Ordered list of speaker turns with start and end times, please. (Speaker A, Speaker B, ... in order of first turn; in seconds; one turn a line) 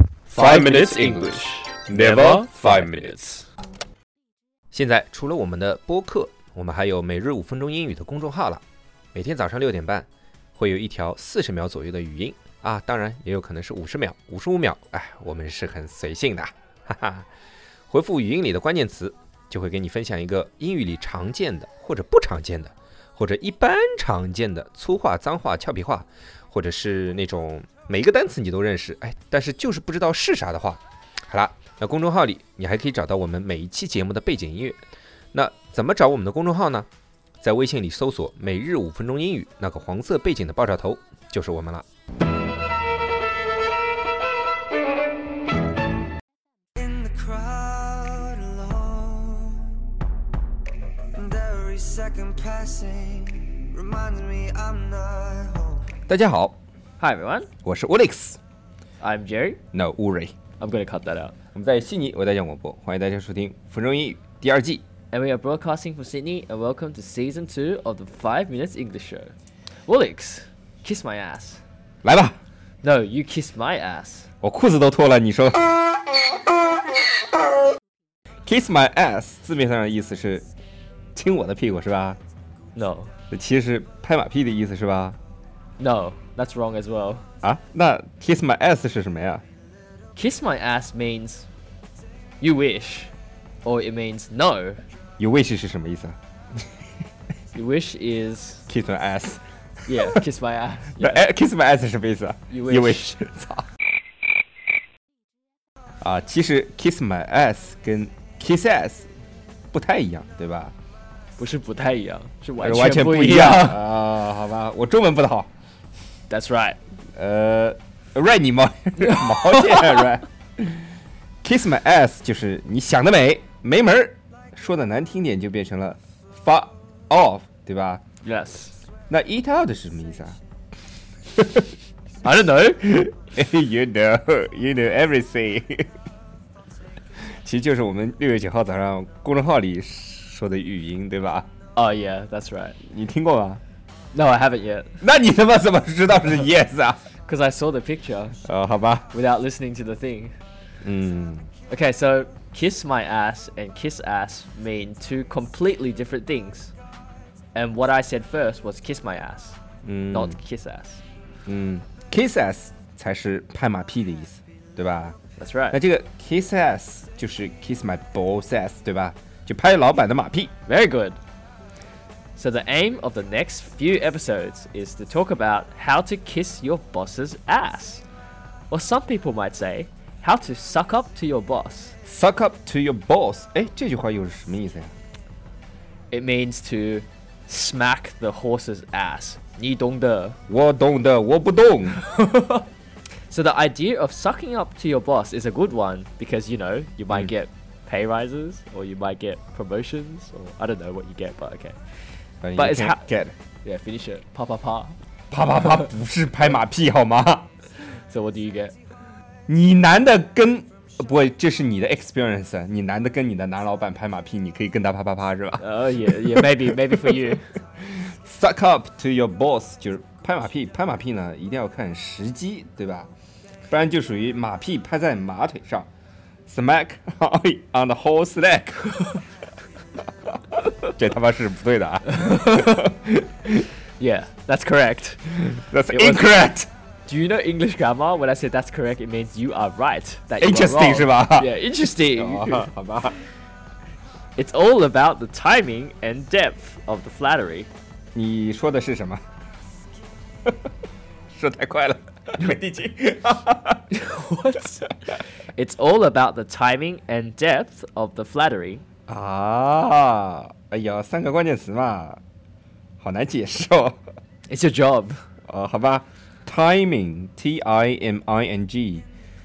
Speaker A: 0.3-3.1
Speaker B: 0.3-3.5
Speaker A: 4.7-8.6
Speaker A: 9.1-17.3
Speaker A: 17.9-34.8
Speaker A: 35.3-36.9
Speaker A: 37.4-41.8
Speaker C: 46.8-49.8
Speaker C: 51.1-55.8
Speaker A: 56.1-56.6
Speaker B: 57.0-57.5
Speaker A: 57.6-58.4
Speaker B: 59.0-59.6
Speaker A: 59.7-60.3
Speaker B: 60.6-61.3
Speaker A: 61.5-64.8
Speaker B: 65.1-69.3
Speaker B: 69.9-71.6
Speaker A: 72.0-72.4
Speaker B: 72.8-74.3
Speaker A: 74.4-76.0
Speaker A: 78.4-80.5
Speaker A: 81.1-82.2
Speaker B: 82.7-83.1
Speaker A: 83.3-85.2
Speaker B: 85.8-87.2
Speaker A: 87.4-89.4
Speaker B: 90.1-91.5
Speaker B: 92.4-93.1
Speaker B: 93.6-94.8
Speaker A: 95.2-96.2
Speaker B: 97.5-98.6
Speaker A: 98.7-100.1
Speaker B: 99.9-101.2
Speaker A: 101.0-103.6
Speaker B: 102.5-103.2
Speaker A: 106.0-109.1
Speaker A: 109.7-110.7
Speaker B: 111.4-113.8
Speaker A: 112.6-115.5
Speaker B: 116.3-116.8
Speaker A: 117.1-120.9
Speaker B: 119.0-120.0
Speaker A: 121.4-128.0
Speaker B: 128.2-128.7
Speaker A: 129.1-130.4
Speaker A: 131.3-131.7
Speaker B: 132.2-133.0
Speaker A: 132.8-135.9
Speaker A: 137.2-141.5
Speaker B: 141.7-142.8
Speaker A: 142.8-143.6
Speaker B: 144.1-145.0
Speaker A: 145.0-147.0
Speaker B: 147.2-148.4
Speaker A: 148.4-149.1
Speaker B: 149.1-150.3
Speaker A: 150.8-151.5
Speaker B: 151.7-156.7
Speaker B: 157.5-159.6
Speaker A: 159.8-160.3
Speaker B: 160.1-161.0
Speaker A: 161.5-165.2
Speaker B: 165.4-165.8
Speaker A: 165.7-170.5
Speaker B: 170.7-171.2
Speaker B: 172.3-178.0
Speaker B: 178.7-181.9
Speaker A: 182.0-184.9
Speaker B: 186.1-190.4
Speaker A: 190.5-192.0
Speaker B: 192.0-192.7
Speaker B: 193.3-201.8
Speaker A: 202.4-203.3
Speaker B: 202.6-203.1
Speaker B: 203.6-205.0
Speaker A: 205.3-207.5
Speaker B: 207.8-208.7
Speaker A: 209.5-223.1
Speaker B: 215.6-217.5
Speaker A: 223.7-225.9
Speaker A: 226.5-229.0
Speaker A: 230.5-233.7
Speaker B: 232.1-232.9
Speaker B: 234.0-235.4
Speaker A: 235.5-236.7
Speaker B: 235.9-236.4
Speaker B: 237.1-242.7
Speaker A: 240.4-241.5
Speaker A: 242.1-243.2
Speaker B: 244.3-247.7
Speaker A: 248.1-249.2
Speaker A: 251.3-253.8
Speaker B: 253.9-254.9
Speaker B: 255.5-258.8
Speaker A: 259.1-262.2
Speaker A: 263.0-264.0
Speaker B: 264.5-265.2
Speaker A: 265.5-269.1